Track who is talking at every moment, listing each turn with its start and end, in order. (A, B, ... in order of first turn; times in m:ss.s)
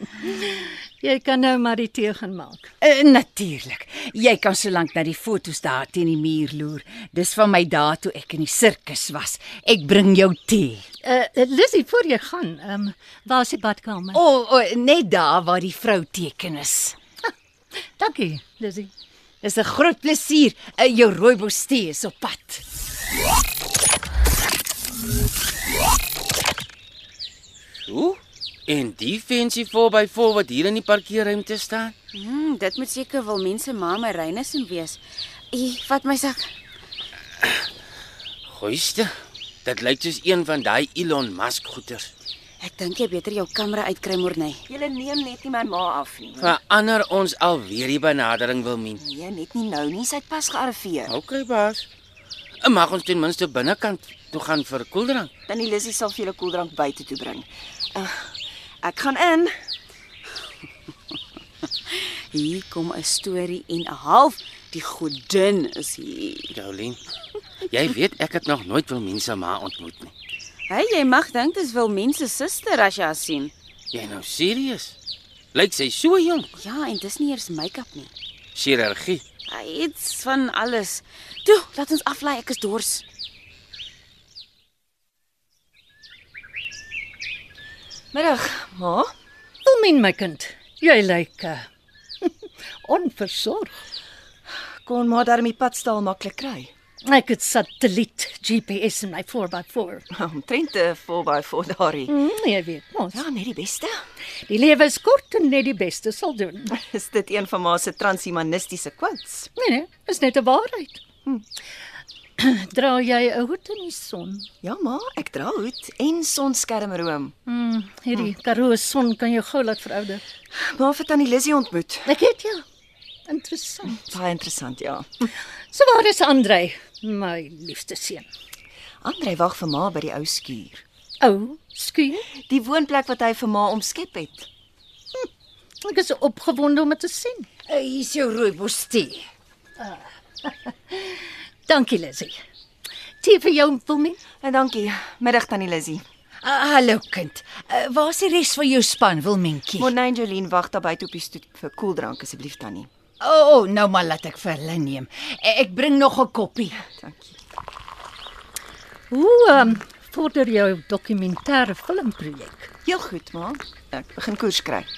0:00.2-0:02.7 A
0:02.8-0:10.8 B
0:11.0-0:14.2 A
0:14.1-0:17.0 B
0:18.0-0:18.9 A
0:19.4-0:22.6 B
0:27.9-0:31.9 C
0:32.1-0:35.0 D
0:35.5-0:36.5 D
0:37.4-0:37.7 C
0:38.5-0:39.1 C
0:39.6-0:42.1 C
0:42.6-0:44.6 D
0:44.7-0:46.6 E
0:46.4-0:49.0 C
0:49.0-0:51.1 E
0:51.1-0:51.8 C
0:52.6-0:55.3 C
0:55.5-0:59.5 E
1:02.3-1:06.5 D
1:06.5-1:07.0 C
1:07.7-1:10.1 C
1:10.7-1:13.5 D
1:13.9-1:15.0 C
1:15.5-1:16.5 C
1:16.6-1:18.1 D
1:18.5-1:19.2 C
1:19.5-1:23.0 D
1:28.1-1:29.1 E
1:29.6-1:31.7 A
1:32.2-1:33.7 A
1:34.8-1:36.7 E
1:37.0-1:40.0 A
1:40.1-1:42.1 E
1:42.1-1:43.2 A
1:43.1-1:44.0 E
1:44.5-1:46.8 A
1:46.8-1:49.5 E
1:49.6-1:51.0 A
1:52.4-1:54.5 A
1:54.6-1:57.3 E
1:57.4-2:00.2 A
2:00.6-2:02.1 E
2:02.1-2:02.6 A
2:03.3-2:04.0 A
2:04.0-2:05.1 E
2:05.7-2:08.2 A
2:09.0-2:10.8 E
2:11.2-2:12.2 A
2:12.5-2:14.5 E
2:15.8-2:17.5 A
2:17.7-2:19.2 B
2:19.8-2:22.4 A
2:23.2-2:24.2 A
2:24.4-2:26.0 E
2:26.4-2:29.9 B
2:29.8-2:32.9 E
2:33.2-2:36.8 B
2:36.8-2:37.4 E
2:39.1-2:42.7 A
2:42.8-2:44.9 E